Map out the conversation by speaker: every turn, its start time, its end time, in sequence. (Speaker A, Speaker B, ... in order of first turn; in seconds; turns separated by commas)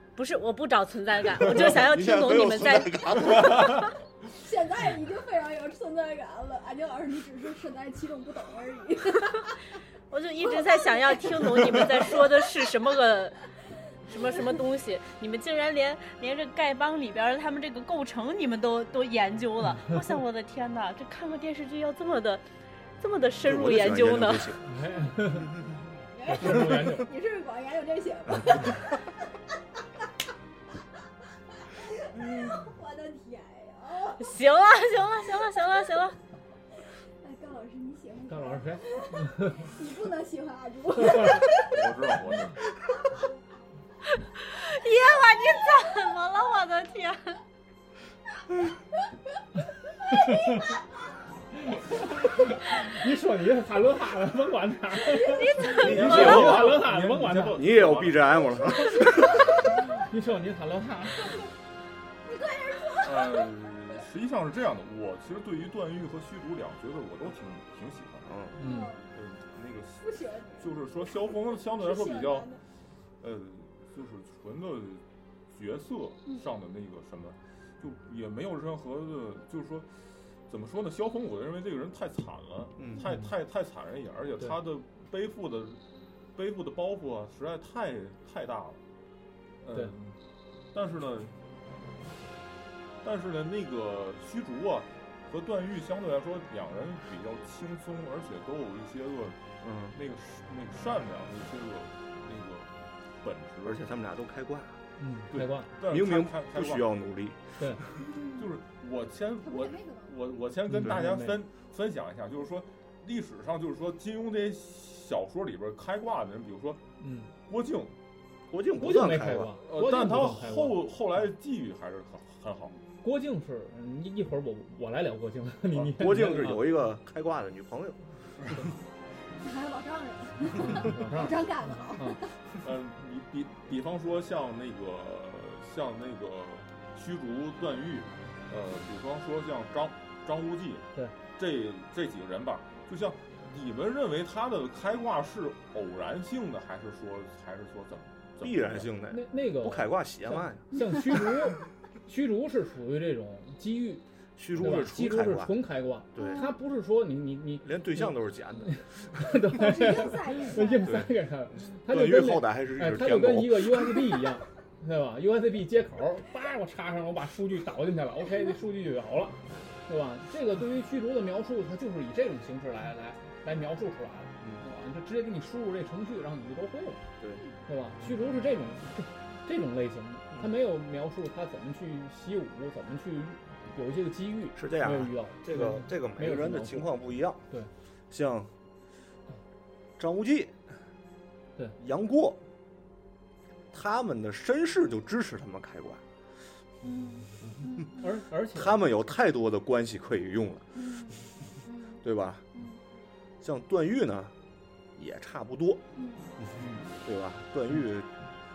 Speaker A: 0.1-3.9, Speaker B: 1.7-3.6, Speaker C: 3.3-3.7, Speaker D: 4.3-9.6, Speaker A: 10.1-13.4, Speaker D: 10.4-12.5, Speaker D: 14.1-14.6, Speaker A: 14.1-22.4, Speaker A: 23.0-24.6, Speaker B: 23.4-24.7, Speaker E: 24.6-25.5, Speaker D: 25.4-29.1, Speaker E: 26.3-27.1, Speaker D: 31.7-34.3, Speaker A: 34.2-36.1, Speaker D: 37.2-41.8, Speaker E: 38.3-39.7, Speaker C: 41.5-42.6, Speaker A: 44.1-47.4, Speaker E: 50.1-50.8, Speaker E: 51.6-57.6, Speaker A: 55.2-56.6, Speaker D: 55.4-55.8, Speaker B: 55.7-56.9, Speaker C: 55.8-59.0, Speaker B: 57.5-59.8, Speaker E: 60.0-61.4, Speaker D: 62.2-63.5, Speaker C: 63.0-68.3, Speaker B: 68.2-68.5, Speaker D: 68.5-69.1, Speaker E: 68.6-68.9, Speaker C: 69.1-72.6, Speaker D: 70.0-72.6, Speaker C: 73.2-85.8, Speaker E: 83.0-83.3, Speaker C: 86.3-88.8, Speaker C: 89.6-90.2, Speaker C: 90.7-91.3, Speaker C: 93.0-99.4, Speaker B: 99.6-100.0, Speaker C: 99.9-103.8, Speaker B: 103.6-104.8, Speaker E: 105.0-105.7, Speaker C: 105.3-106.9, Speaker B: 105.8-107.9, Speaker C: 108.1-116.8, Speaker D: 109.4-110.1, Speaker E: 110.7-111.4, Speaker E: 117.0-117.3, Speaker C: 117.5-118.0, Speaker B: 118.5-119.5, Speaker E: 118.8-120.8, Speaker C: 119.6-122.8, Speaker E: 123.0-126.8, Speaker B: 125.7-128.0, Speaker D: 129.4-132.3, Speaker E: 130.5-132.2, Speaker C: 132.6-148.9, Speaker B: 148.4-151.3, Speaker E: 149.1-154.0, Speaker B: 154.4-155.6, Speaker E: 154.5-177.0, Speaker B: 156.1-156.5, Speaker D: 156.2-156.5, Speaker B: 157.6-159.4, Speaker D: 159.5-161.0, Speaker B: 160.8-164.2, Speaker B: 177.2-177.4, Speaker E: 177.7-187.7, Speaker B: 184.5-187.4, Speaker B: 188.1-188.5, Speaker B: 190.0-190.6, Speaker B: 191.8-192.4, Speaker B: 193.7-196.0, Speaker D: 196.8-198.1, Speaker E: 197.9-198.8, Speaker B: 198.5-200.8, Speaker D: 200.7-202.0, Speaker B: 202.0-202.5, Speaker D: 202.5-202.8, Speaker B: 203.4-204.3, Speaker B: 204.9-205.8, Speaker D: 205.9-206.3, Speaker B: 206.4-208.1, Speaker E: 206.6-206.9